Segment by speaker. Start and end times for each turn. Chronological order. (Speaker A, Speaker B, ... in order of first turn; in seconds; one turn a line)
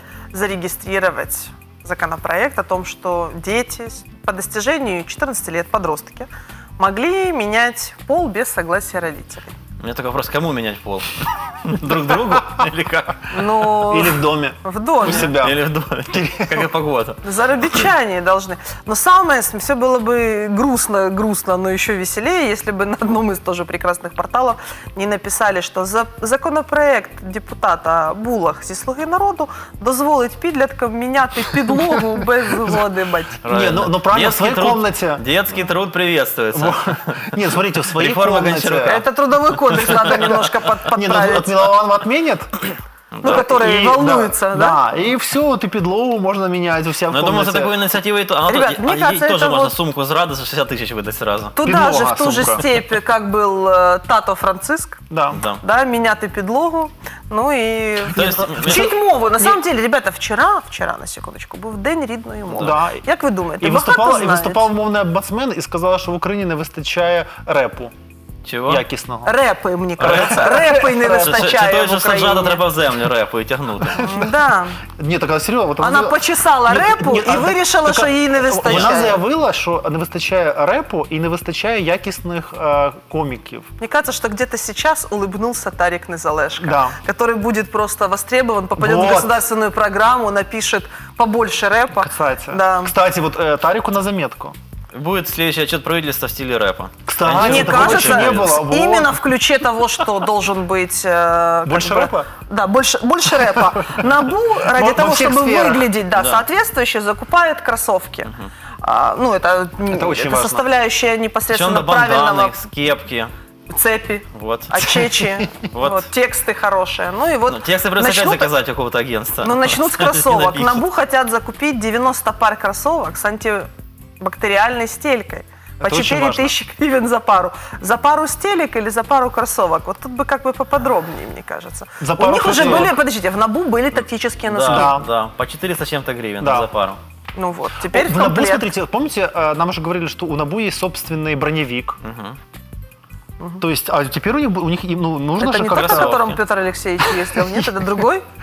Speaker A: 0.3-9.5
Speaker B: 9.8-13.4
Speaker C: 11.7-12.7
Speaker A: 13.3-15.3
Speaker C: 13.7-16.7
Speaker B: 15.0-17.2
Speaker A: 17.2-33.4
Speaker C: 33.4-35.2
Speaker B: 33.4-37.3
Speaker C: 36.5-39.0
Speaker B: 37.9-39.1
Speaker A: 38.8-41.6
Speaker B: 39.7-40.5
Speaker C: 40.0-40.3
Speaker C: 40.9-42.5
Speaker B: 43.1-43.5
Speaker A: 43.2-44.8
Speaker C: 43.2-47.8
Speaker B: 47.1-51.5
Speaker A: 48.5-49.7
Speaker A: 51.5-55.0
Speaker C: 51.6-52.6
Speaker C: 55.1-55.4
Speaker B: 55.3-55.6
Speaker A: 55.6-64.7
Speaker B: 58.1-58.9
Speaker C: 58.5-58.9
Speaker C: 62.5-63.0
Speaker C: 63.6-67.9
Speaker B: 68.4-68.8
Speaker C: 68.7-69.3
Speaker A: 69.2-72.6
Speaker C: 70.0-71.4
Speaker B: 70.0-74.1
Speaker A: 74.0-74.8
Speaker C: 75.0-83.7
Speaker A: 75.8-79.2
Speaker B: 78.7-79.0
Speaker A: 83.8-92.9
Speaker C: 86.6-87.0
Speaker C: 88.8-89.4
Speaker C: 92.0-94.5
Speaker B: 94.9-98.6
Speaker C: 97.1-99.2
Speaker A: 97.3-108.3
Speaker C: 101.7-102.3
Speaker C: 103.7-104.0
Speaker C: 104.6-105.9
Speaker B: 106.2-106.4
Speaker A: 108.8-112.6
Speaker C: 109.9-110.6
Speaker B: 111.5-113.3
Speaker A: 113.7-118.5
Speaker B: 114.3-114.7
Speaker C: 114.8-115.5
Speaker B: 115.7-116.1
Speaker B: 117.5-120.8
Speaker A: 119.4-123.7
Speaker A: 124.2-135.0
Speaker C: 125.8-126.5
Speaker C: 132.0-132.9
Speaker B: 132.5-132.9
Speaker B: 134.5-137.0
Speaker C: 134.7-135.1
Speaker C: 136.4-136.7
Speaker A: 137.3-138.7
Speaker C: 137.9-142.0
Speaker B: 142.0-142.4
Speaker C: 143.6-146.2
Speaker A: 145.4-148.2
Speaker B: 145.7-146.4
Speaker C: 147.3-147.6